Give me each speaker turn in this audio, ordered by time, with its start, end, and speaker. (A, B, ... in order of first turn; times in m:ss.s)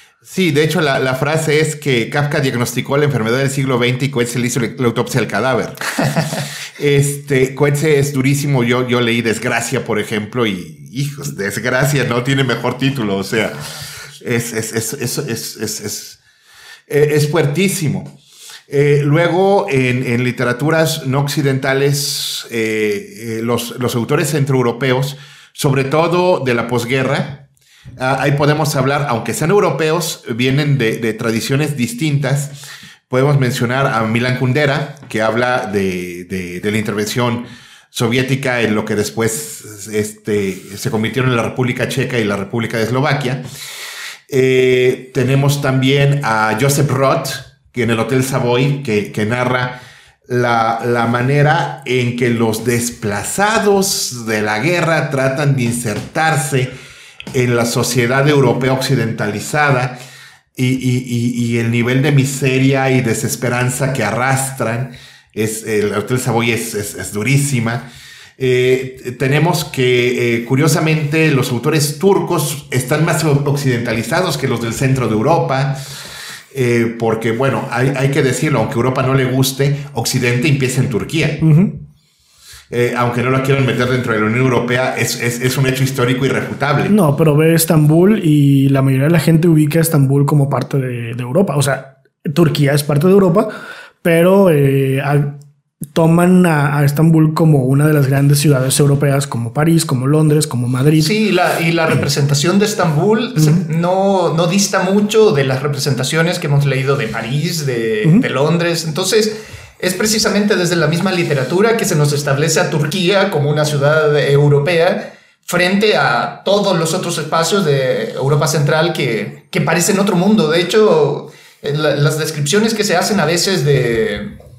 0:00.2-0:05.8 A
0:06.8-0:13.6 A
0:14.2-0:16.2 A
0:16.9-0:18.1 A
0:18.7-0:27.5 A
0:28.0-0:32.6 A
0:33.1-0:43.4 A
0:44.3-0:56.8 A
0:57.3-1:00.0 A
1:00.6-1:07.9 A
1:08.4-1:15.8 A
1:16.5-1:21.4 A
1:21.4-1:21.8 B
1:22.7-1:26.9 A
1:26.9-1:33.5 B
1:34.0-1:35.4 B
1:35.9-1:41.1 B
1:41.0-2:04.3 C
1:43.4-1:43.6 B